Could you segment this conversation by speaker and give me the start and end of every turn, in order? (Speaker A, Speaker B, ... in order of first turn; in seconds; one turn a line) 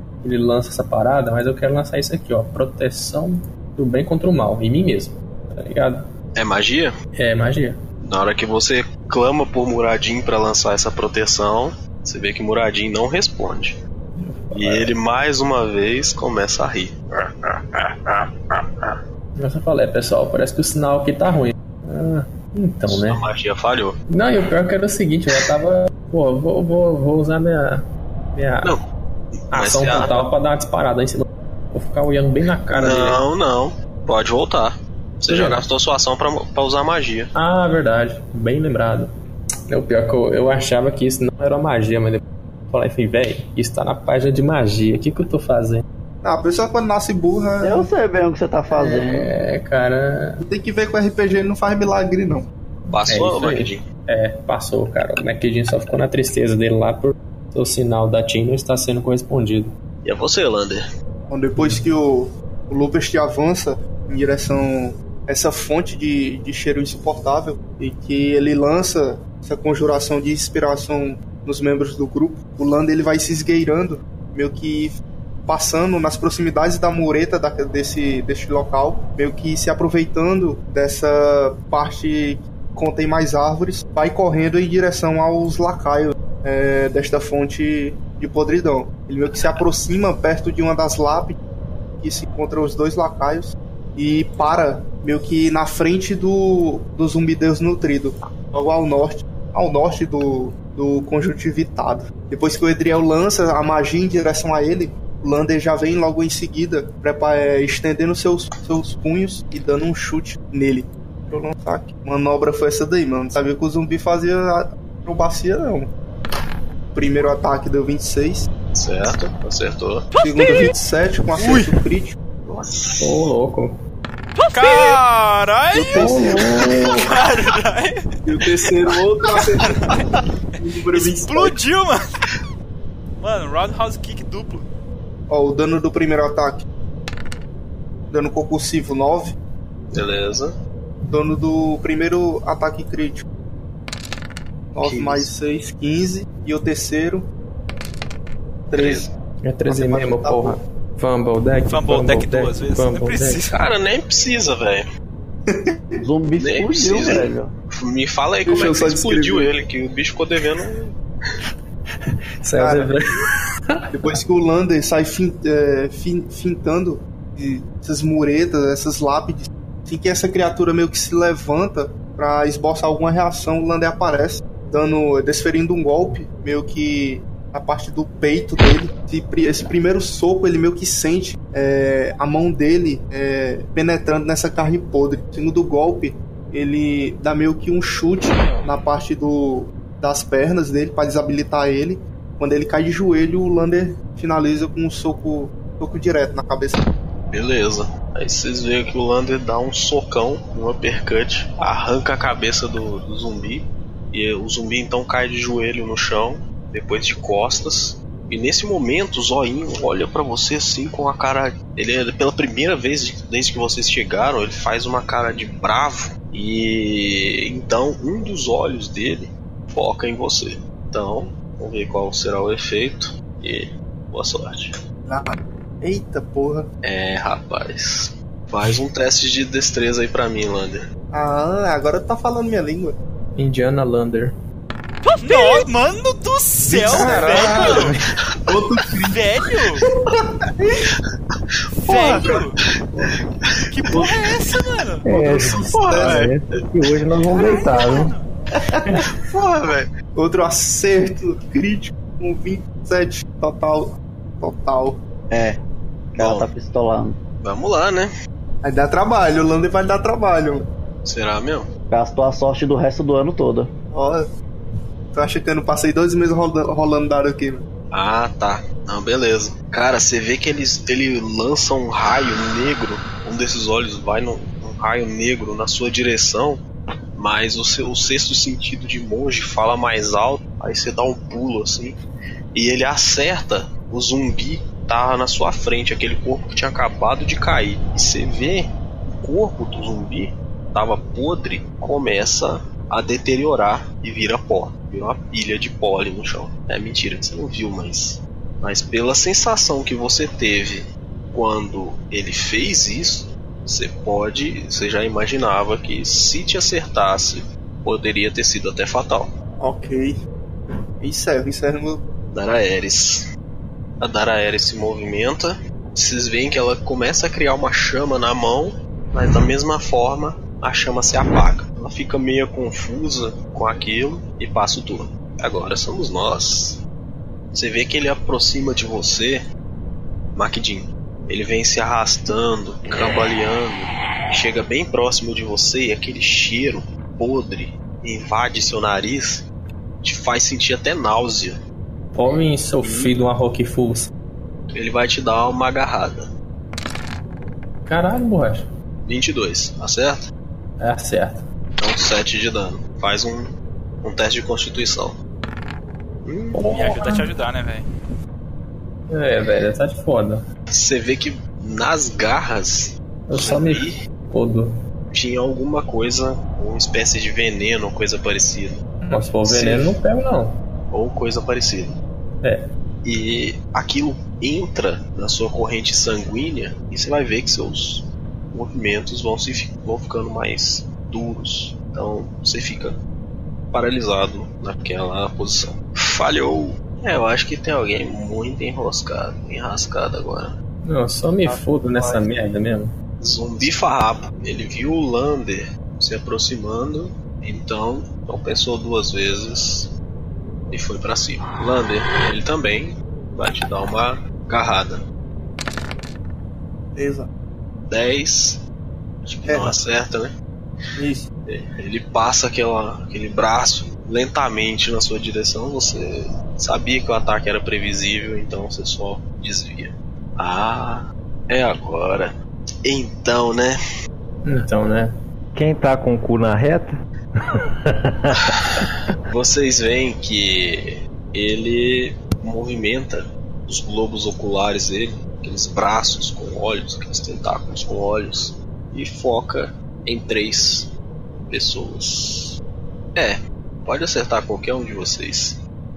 Speaker A: 0.2-6.1
Speaker B: 6.3-7.0
Speaker A: 7.2-7.8
Speaker B: 8.0-13.8
Speaker A: 14.2-14.9
Speaker B: 14.5-19.0
Speaker A: 19.4-23.2
Speaker B: 22.9-24.0
Speaker A: 24.1-28.8
Speaker B: 29.5-30.3
Speaker A: 29.5-33.2
Speaker B: 32.8-37.3
Speaker A: 35.3-35.6
Speaker A: 37.4-39.1
Speaker A: 39.7-45.8
Speaker C: 46.2-47.9
Speaker D: 47.6-49.3
Speaker A: 48.7-50.4
Speaker C: 50.4-52.5
Speaker A: 52.9-59.7
Speaker B: 52.9-53.8
Speaker B: 60.0-60.8
Speaker C: 61.3-75.0
Speaker A: 61.6-61.8
Speaker C: 75.5-91.4
Speaker C: 92.0-115.9
Speaker C: 117.0-118.5
Speaker B: 118.7-120.1
Speaker C: 120.2-122.2
Speaker E: 121.4-121.7
Speaker B: 122.5-123.3
Speaker A: 123.0-123.8
Speaker E: 124.5-128.1
Speaker C: 125.8-126.7
Speaker A: 126.0-127.1
Speaker C: 128.3-130.0
Speaker E: 129.7-130.0
Speaker C: 130.6-131.6
Speaker E: 130.9-132.0
Speaker E: 133.2-134.7
Speaker C: 135.3-136.6
Speaker C: 138.1-139.4
Speaker B: 139.9-140.6
Speaker C: 141.1-143.2
Speaker C: 144.7-147.3
Speaker B: 144.8-145.3
Speaker C: 148.7-149.1
Speaker B: 148.7-149.1
Speaker A: 149.4-153.4
Speaker C: 149.7-150.6
Speaker E: 151.7-153.6
Speaker B: 153.5-154.8
Speaker C: 155.5-156.0
Speaker D: 156.0-157.5
Speaker B: 156.4-160.9
Speaker C: 158.5-159.5
Speaker A: 162.4-164.1
Speaker C: 162.6-162.9
Speaker C: 163.9-196.9
Speaker B: 197.3-224.7
Speaker C: 225.1-226.7
Speaker B: 226.8-230.8
Speaker C: 231.1-233.0
Speaker A: 233.4-234.3
Speaker E: 235.2-237.9
Speaker C: 236.9-237.8
Speaker A: 236.9-237.9
Speaker C: 238.5-239.2
Speaker E: 239.1-239.8
Speaker E: 241.8-242.6
Speaker C: 241.9-242.4
Speaker B: 242.1-242.4
Speaker E: 243.7-245.0
Speaker F: 245.1-248.1
Speaker C: 245.1-246.3
Speaker B: 245.7-246.1
Speaker E: 246.0-246.3
Speaker E: 247.3-248.2
Speaker C: 248.7-249.0
Speaker B: 249.0-249.9
Speaker C: 250.2-255.0
Speaker D: 256.1-257.2
Speaker B: 256.2-256.5
Speaker B: 257.4-258.1
Speaker C: 258.6-260.7
Speaker B: 261.1-261.7
Speaker D: 261.9-263.7
Speaker C: 263.9-264.2
Speaker C: 265.1-267.6
Speaker B: 267.9-276.6
Speaker B: 277.2-282.0
Speaker B: 282.5-309.3
Speaker C: 309.6-310.2
Speaker C: 311.0-312.0
Speaker B: 312.3-313.3
Speaker B: 314.0-326.8
Speaker B: 327.5-329.4
Speaker B: 330.4-339.5
Speaker B: 340.0-341.6
Speaker A: 342.1-344.1
Speaker B: 342.8-343.1
Speaker B: 344.7-346.3
Speaker A: 347.9-348.7
Speaker B: 349.1-350.3
Speaker A: 350.8-351.5
Speaker B: 351.8-355.2
Speaker B: 356.2-356.6
Speaker A: 356.5-357.3
Speaker E: 356.7-357.9
Speaker A: 359.1-360.4
Speaker B: 360.7-364.0
Speaker A: 363.3-364.7
Speaker B: 365.1-368.8
Speaker A: 369.1-370.6
Speaker B: 369.4-370.0
Speaker B: 370.9-372.0
Speaker A: 372.4-372.7
Speaker B: 373.0-383.0
Speaker B: 383.7-390.5
Speaker A: 390.9-392.9
Speaker C: 391.4-392.3
Speaker B: 393.2-399.9
Speaker B: 400.7-405.0
Speaker C: 407.0-407.3
Speaker B: 407.9-408.6
Speaker B: 409.3-410.3
Speaker C: 409.5-409.7
Speaker C: 411.0-411.3
Speaker B: 411.5-423.8
Speaker A: 424.4-425.1
Speaker F: 425.6-428.9
Speaker B: 428.5-440.9
Speaker B: 441.5-442.6
Speaker B: 443.1-445.6